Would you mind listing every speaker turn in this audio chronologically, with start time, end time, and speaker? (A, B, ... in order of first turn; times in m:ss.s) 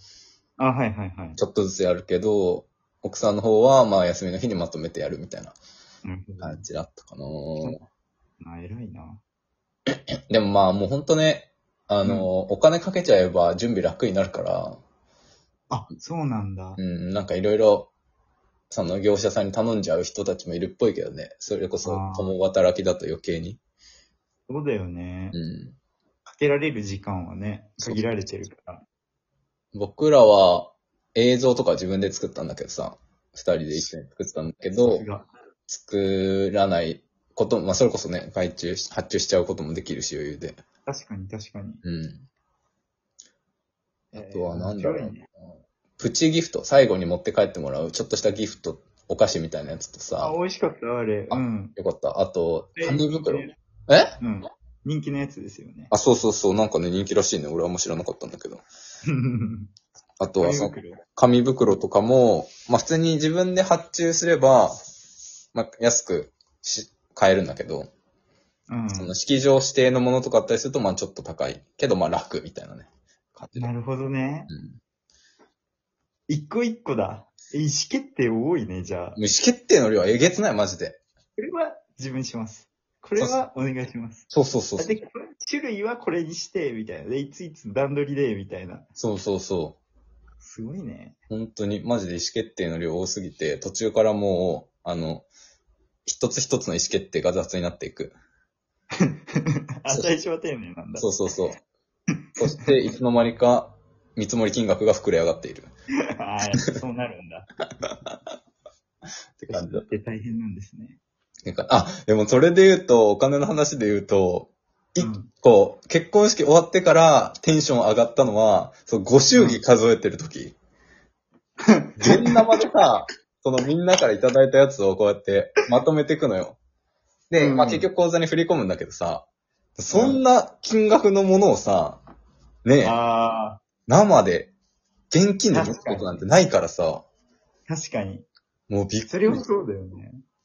0:00.6-0:01.4 A
0:01.4-0:05.6 B
0:06.0-0:06.6 A
0:06.4-0:07.8 B
0:08.4-0:09.2 A
0:10.3-0:14.8 B
0:12.0-0:12.3 A
0:15.7-0:16.8 A
0:16.8-0:17.9 B
0:18.7-0:23.6 B
0:21.8-0:22.3 A
0:24.5-0:25.4 A
0:25.3-0:25.8 B
0:26.3-0:28.8 A
0:29.7-0:35.0 B
0:34.8-0:35.3 A
0:35.7-0:40.6 B
0:40.9-0:41.8 A
0:41.8-0:42.3 B
0:44.1-0:45.2 B
0:44.1-0:45.3 A
0:46.0-0:50.4 B
0:50.2-0:51.8 A
0:51.3-0:54.2 B
0:52.8-0:53.5 A
0:54.2-0:55.9 A
0:55.9-0:58.6 B
0:59.0-0:59.7 A
1:00.2-1:04.9 B
1:00.4-1:01.0 A
1:05.5-1:07.9 B
1:08.7-1:09.1 A
1:09.0-1:13.7 B
1:13.6-1:14.5 A
1:14.5-1:14.8 B
1:16.3-1:19.2 A
1:19.2-1:21.0 B
1:21.4-1:28.9 A
1:24.3-1:24.9 B
1:29.0-1:29.8 B
1:30.4-1:31.2 A
1:31.3-1:35.3 B
1:36.1-1:38.2 B
1:39.1-1:41.1 A
1:41.0-1:41.6 B
1:42.4-1:45.7 B
1:46.1-1:47.5 A
1:49.4-1:49.9 B
1:49.5-1:51.0 A
1:51.5-2:00.6 B
1:55.0-1:55.3 A
1:59.3-1:59.6 A
2:01.7-2:02.5 A
2:02.0-2:06.6 B
2:07.3-2:09.3 B
2:07.4-2:07.9 A
2:09.8-2:12.0 B
2:09.9-2:10.2 A
2:12.6-2:13.0 B
2:12.8-2:13.6 A
2:13.9-2:14.5 B
2:15.1-2:17.1 B
2:15.5-2:16.2 A
2:17.7-2:18.3 A
2:18.7-2:19.4 B
2:19.1-2:20.2 A